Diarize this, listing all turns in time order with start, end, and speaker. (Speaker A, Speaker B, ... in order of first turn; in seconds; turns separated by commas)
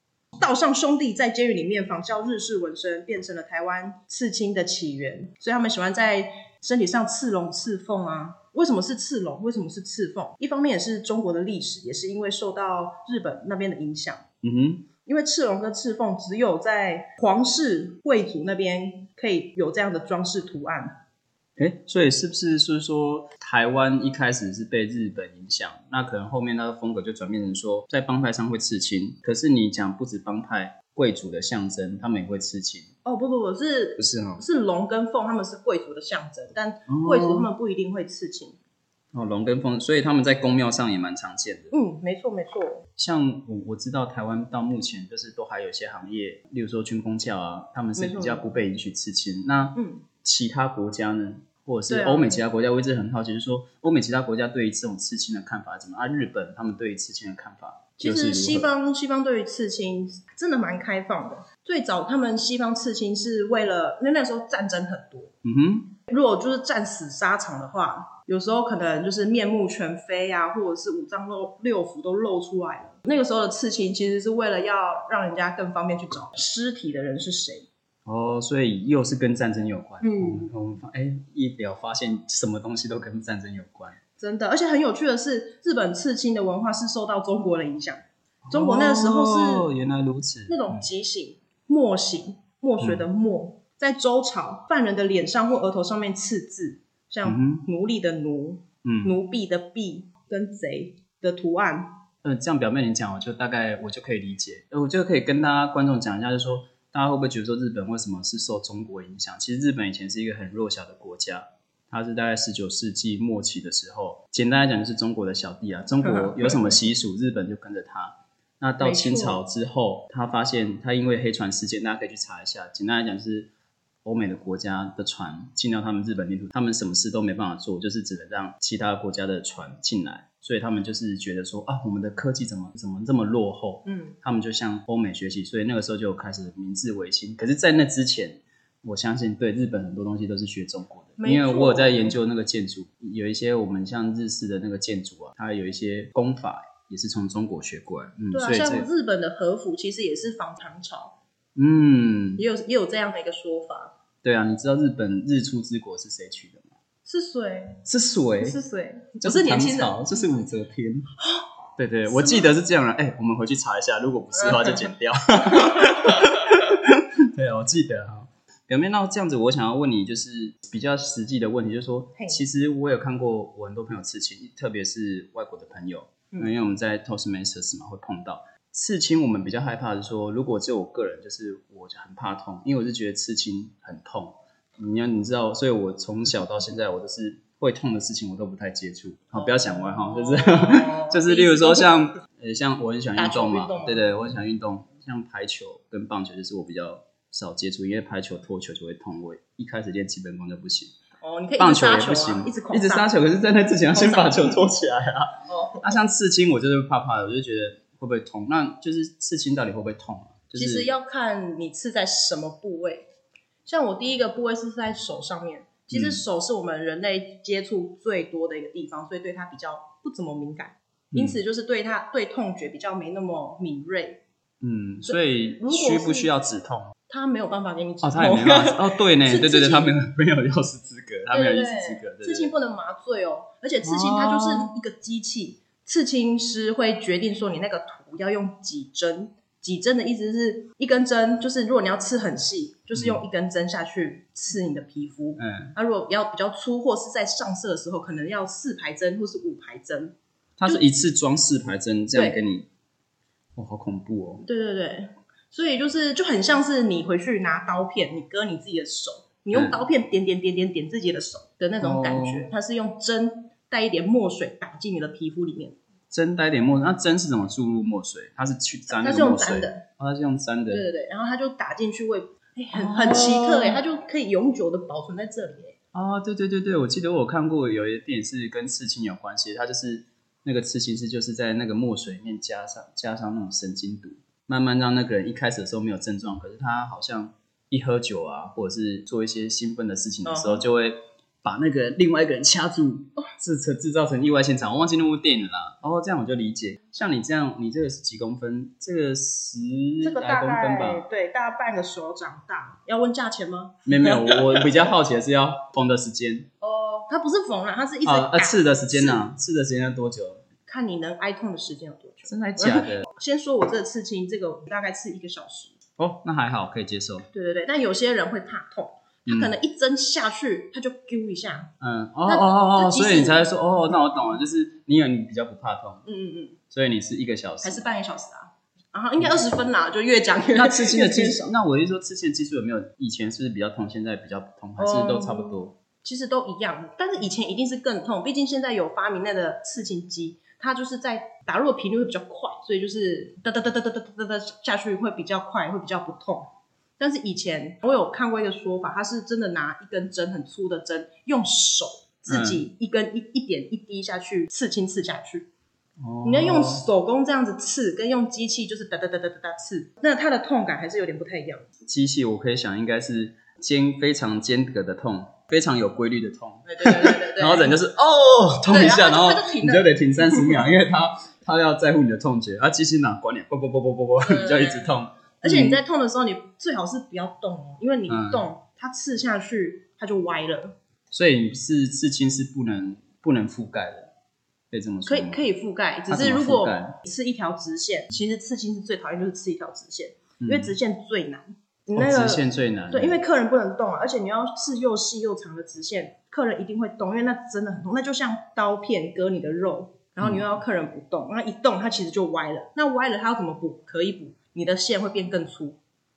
Speaker A: 0.3-14.2, Speaker B: 14.4-14.9, Speaker A: 15.0-20.9, Speaker B: 21.6-32.9, Speaker A: 33.0-38.6, Speaker B: 34.0-34.4, Speaker B: 36.9-37.5, Speaker B: 39.1-41.7, Speaker A: 41.7-42.9, Speaker B: 43.0-58.7, Speaker A: 48.0-48.4, Speaker A: 49.8-50.0, Speaker A: 51.9-52.4, Speaker A: 58.0-65.3, Speaker B: 65.4-65.9, Speaker A: 66.0-77.7, Speaker B: 78.0-84.0, Speaker A: 80.0-80.5, Speaker A: 84.2-89.7, Speaker B: 88.4-90.8, Speaker A: 90.5-102.0, Speaker B: 92.8-93.0, Speaker B: 97.2-97.6, Speaker B: 98.8-99.1, Speaker B: 102.2-123.5, Speaker A: 116.0-116.8, Speaker A: 118.8-119.4, Speaker B: 124.0-148.9, Speaker A: 133.8-134.2, Speaker A: 141.2-142.1, Speaker A: 148.3-151.2, Speaker B: 151.6-152.4, Speaker A: 152.4-153.9, Speaker B: 154.2-156.7, Speaker A: 157.0-157.8, Speaker B: 157.8-158.6, Speaker A: 158.4-160.4, Speaker B: 159.2-161.1, Speaker B: 161.8-200.9, Speaker A: 162.1-162.5, Speaker A: 164.4-164.8, Speaker A: 165.6-165.9, Speaker A: 189.3-192.1, Speaker A: 193.2-194.1, Speaker A: 201.2-203.1, Speaker B: 201.6-210.9, Speaker A: 203.9-204.6, Speaker A: 205.5-205.9, Speaker A: 210.5-213.1, Speaker A: 213.7-224.2, Speaker B: 215.9-216.2, Speaker B: 221.1-221.4, Speaker B: 224.6-226.9, Speaker A: 225.1-226.3, Speaker A: 227.1-229.9, Speaker B: 228.0-232.5, Speaker A: 231.3-250.1, Speaker B: 233.8-234.7, Speaker B: 242.9-243.2, Speaker B: 245.4-245.7, Speaker B: 250.6-252.7, Speaker A: 252.1-252.4, Speaker B: 253.6-254.4, Speaker A: 254.4-265.8, Speaker B: 259.5-259.8, Speaker B: 261.8-262.5, Speaker B: 266.1-270.9, Speaker A: 268.9-269.8, Speaker A: 270.7-275.8, Speaker B: 272.7-273.8, Speaker B: 275.9-301.0, Speaker A: 290.2-290.6, Speaker A: 300.0-304.8, Speaker B: 303.9-306.5, Speaker A: 306.6-309.2, Speaker B: 308.0-310.4, Speaker A: 310.7-315.7, Speaker B: 312.3-313.1, Speaker B: 316.0-317.3, Speaker A: 317.3-321.7, Speaker B: 319.2-319.5, Speaker B: 321.8-326.0, Speaker A: 322.2-323.4, Speaker A: 326.1-326.6, Speaker B: 326.7-327.8, Speaker A: 327.6-331.5, Speaker B: 330.5-335.8, Speaker A: 334.8-355.5, Speaker B: 352.3-352.6, Speaker B: 356.0-356.9, Speaker A: 356.2-361.7, Speaker B: 361.8-375.8, Speaker A: 366.6-367.8, Speaker A: 368.7-370.7, Speaker A: 374.2-380.8, Speaker B: 378.1-378.4, Speaker B: 381.1-384.1, Speaker B: 384.7-385.4, Speaker A: 385.1-405.8, Speaker B: 386.1-386.9, Speaker B: 390.4-390.8, Speaker B: 391.9-393.2, Speaker B: 400.2-400.4